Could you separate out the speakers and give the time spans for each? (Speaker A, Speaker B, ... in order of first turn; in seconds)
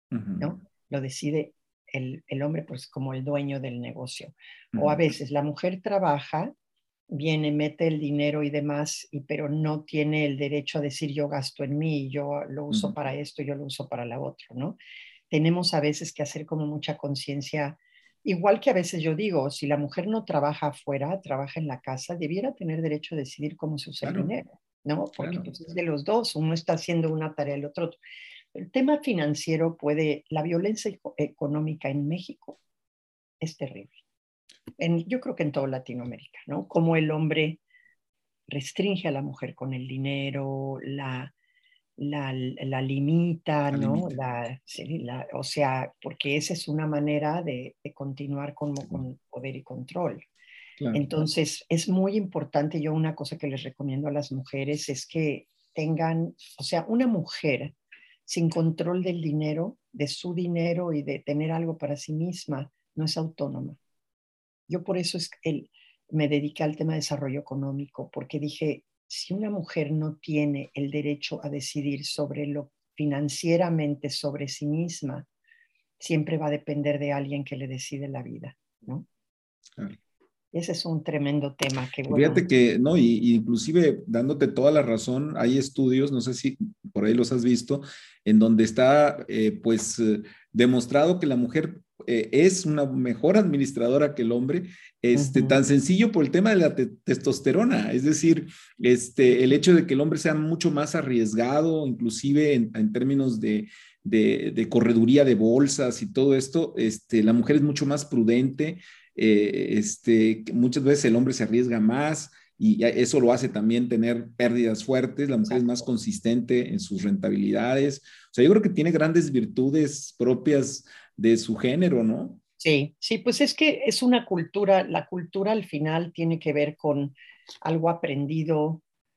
Speaker A: 0.1-0.5, 4.7-5.0, 12.7-12.9, 24.0-24.3, 25.2-25.5, 43.7-44.1, 82.1-122.4
Speaker B: 0.4-6.5, 7.1-14.8, 15.3-28.0, 28.5-32.6, 33.4-34.0, 34.8-37.6, 38.5-41.3, 42.0-50.2, 50.9-57.8, 58.3-63.8, 64.7-75.3, 76.0-79.1, 80.5-82.4, 95.1-95.6, 122.6-128.8